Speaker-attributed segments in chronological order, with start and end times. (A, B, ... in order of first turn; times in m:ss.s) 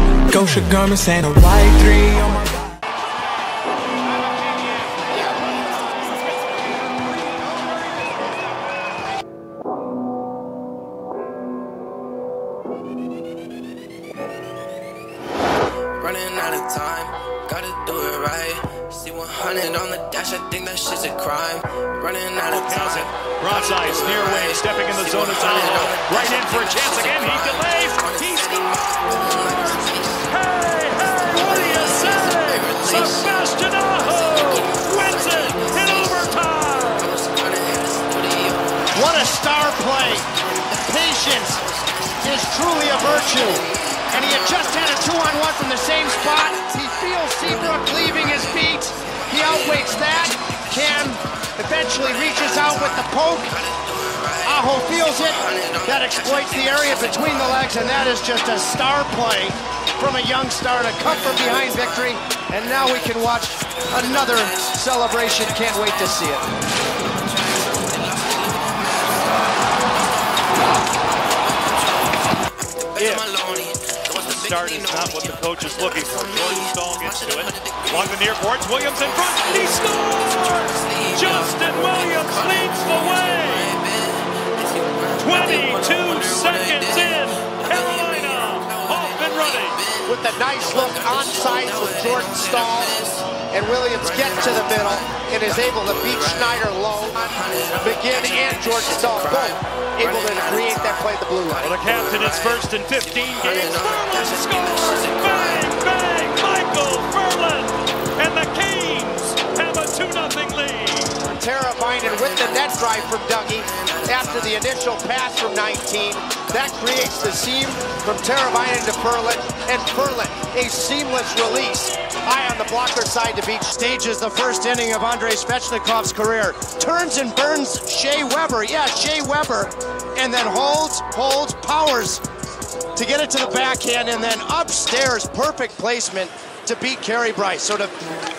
0:00.3-0:02.6 A
0:16.0-0:30.3 B
0:22.5-0:37.2 C
0:31.3-0:36.4 B
0:37.0-0:39.5 B
0:38.9-0:41.6 D
0:40.2-0:45.3 B
0:42.2-0:53.6 D
0:46.0-0:51.2 B
0:52.1-0:57.7 B
0:54.4-1:06.5 D
1:01.3-1:02.2 B
1:02.8-1:06.4 B
1:07.1-1:09.9 B
1:11.2-1:18.4 B
1:13.0-1:13.3 C
1:14.1-1:23.7 C
1:19.0-1:33.3 B
1:25.2-1:29.8 C
1:30.0-1:41.7 D
1:34.0-1:45.8 B
1:41.6-1:51.2 C
1:51.3-2:12.2 D
1:52.0-1:54.6 B
2:13.0-2:17.9 D